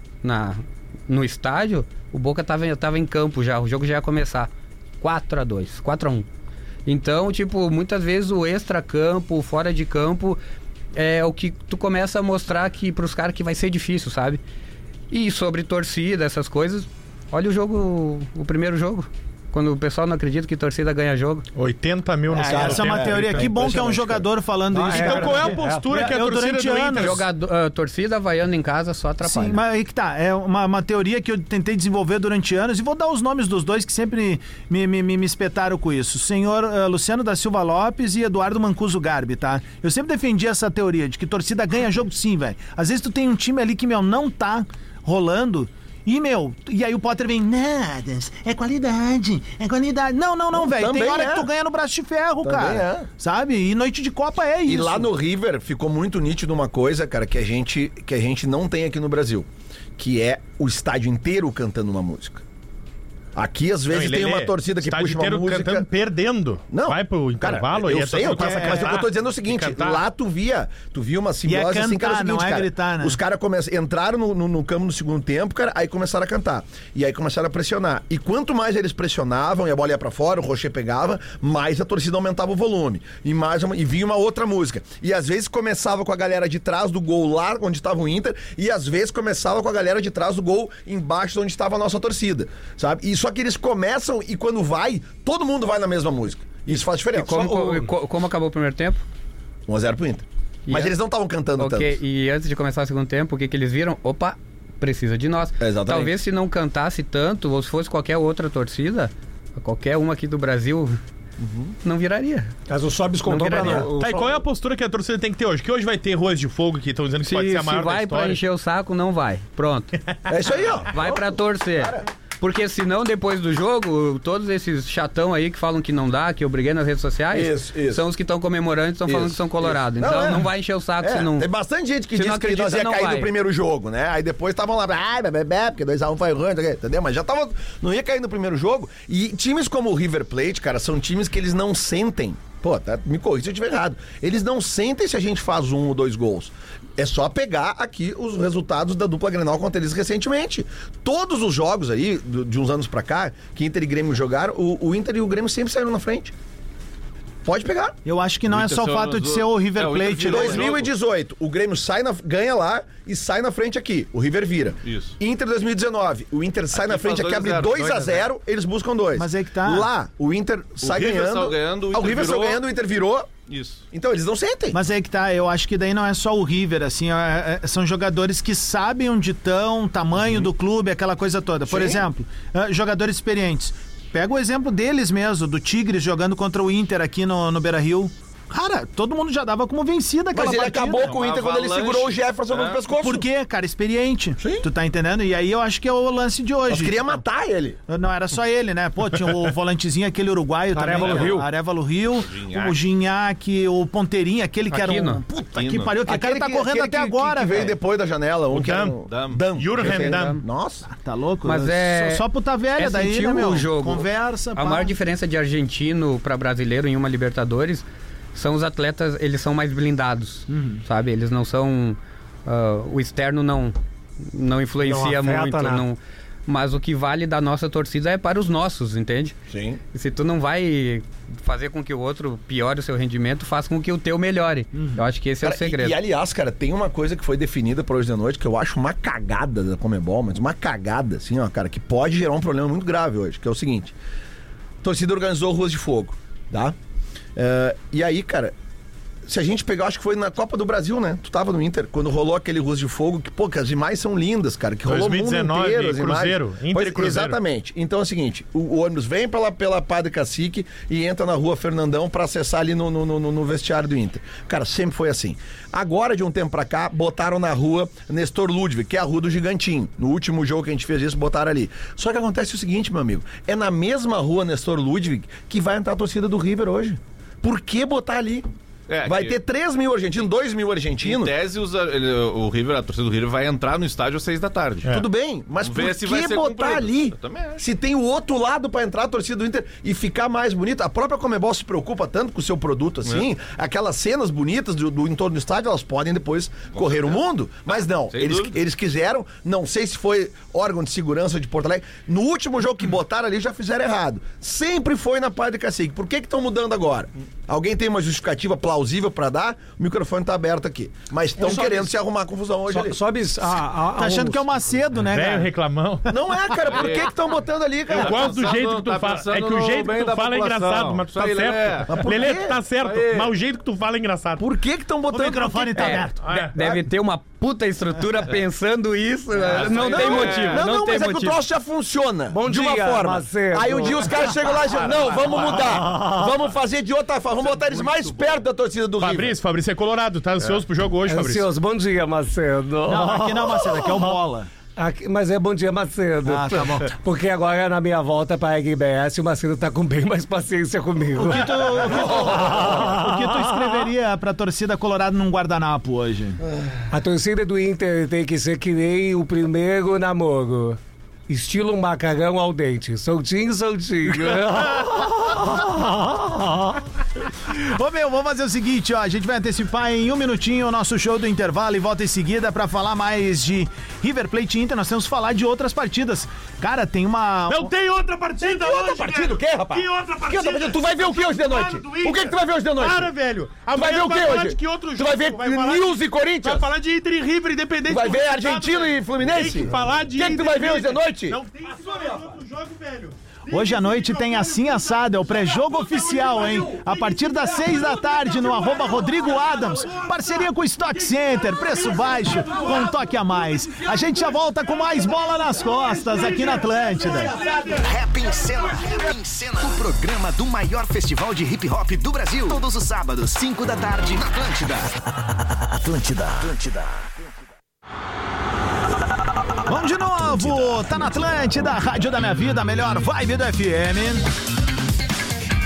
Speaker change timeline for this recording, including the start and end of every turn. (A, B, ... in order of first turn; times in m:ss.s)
0:00.2-0:06.3 A
0:06.8-0:10.4 A
0:10.9-0:14.4 A
0:15.1-0:21.5 A
0:21.6-0:23.5 B
0:22.3-0:27.2 C
0:22.4-0:23.7 D
0:23.3-0:24.2 E
0:24.7-0:26.0 E
0:24.9-0:27.2 B
0:27.0-0:29.6 A
0:29.2-0:55.1 C
0:50.5-0:51.5 D
0:52.4-0:53.1 D
0:54.6-1:02.4 D
1:03.3-1:05.9 D
1:03.9-1:10.0 B
1:06.7-1:37.8 D
1:08.1-1:09.0 C
1:11.4-1:13.2 C
1:37.1-1:39.0 A
1:39.7-1:42.0 D
1:40.7-1:40.9 A
1:41.6-1:51.0 A
1:45.6-1:46.1 D
1:51.4-1:51.7 D
1:51.8-1:52.5 A
1:52.7-1:54.4 E
1:53.2-1:53.9 A
1:53.8-1:58.4 B
1:57.2-2:00.0 A
2:00.3-2:02.0 D
2:00.9-2:11.5 A
2:07.3-2:08.0 D
2:09.0-2:36.3 D
2:12.1-2:13.3 A
2:37.4-2:38.0 D
2:38.0-2:40.6 C
2:38.5-2:40.9 F
2:40.2-2:53.3 D
2:44.8-2:45.1 F
2:46.7-2:48.3 F
2:49.1-2:49.9 C
2:50.8-2:52.6 F
2:53.5-2:53.8 F
2:53.9-2:54.8 D
2:54.7-3:11.1 C
3:01.7-3:02.1 D
3:10.3-3:13.3 D
3:11.0-3:12.8 F
3:12.9-3:17.0 C
3:14.4-3:14.7 D
3:16.7-3:17.8 D
3:17.9-3:27.8 C
3:20.7-3:21.5 E
3:21.0-3:21.4 F
3:22.1-3:22.8 F
3:24.7-3:25.2 A
3:25.5-3:25.9 F
3:26.0-3:30.9 D
3:28.5-3:29.0 B
3:29.1-3:29.4 F
3:29.6-3:30.4 B
3:29.9-3:30.4 A
3:30.9-3:34.9 C
3:31.4-3:32.2 A
3:32.8-3:49.4 A
3:40.5-3:40.8 C
3:44.8-3:45.8 E
3:49.5-3:49.8 D
3:49.9-3:56.0 A
3:55.4-4:03.9 D
4:04.8-4:06.8 D
4:07.4-4:08.5 D
4:09.2-4:38.5 D
4:14.8-4:17.4 B
4:38.9-4:39.4 F
4:39.0-4:41.3 D
4:41.0-4:44.9 F
4:44.9-5:13.0 D
4:45.6-4:47.6 F
4:56.7-4:57.2 F
4:58.1-4:58.6 F
5:11.4-5:11.9 E
5:12.7-5:14.4 E
5:13.9-5:15.5 C
5:15.0-5:16.2 B
5:16.0-5:18.4 D
5:16.7-5:17.1 F
5:17.9-5:22.1 F
5:17.9-5:24.4 B
5:21.9-5:22.6 D
5:22.8-5:23.3 F
5:24.4-5:26.8 D
5:25.1-5:26.2 C
5:25.8-5:31.4 A
5:26.2-5:26.5 B
5:29.4-5:30.6 F
5:29.6-5:39.4 D
5:32.3-5:34.4 E
5:35.6-5:36.3 E
5:37.4-5:38.4 F
5:39.0-5:41.4 B
5:41.0-5:44.1 E
5:42.9-5:44.5 C
5:44.8-5:53.8 E
5:46.2-5:46.9 C
5:51.2-5:56.4 C
5:56.9-6:06.8 E
6:07.4-6:17.7 C
6:17.5-6:40.1 B
6:18.4-6:23.1 D
6:23.7-6:26.7 D
6:27.9-6:31.4 D
6:33.5-6:47.5 C
6:41.4-6:43.0 B
6:46.1-6:47.8 B
6:47.7-6:54.9 G
6:55.8-6:57.3 G
6:59.7-7:04.3 C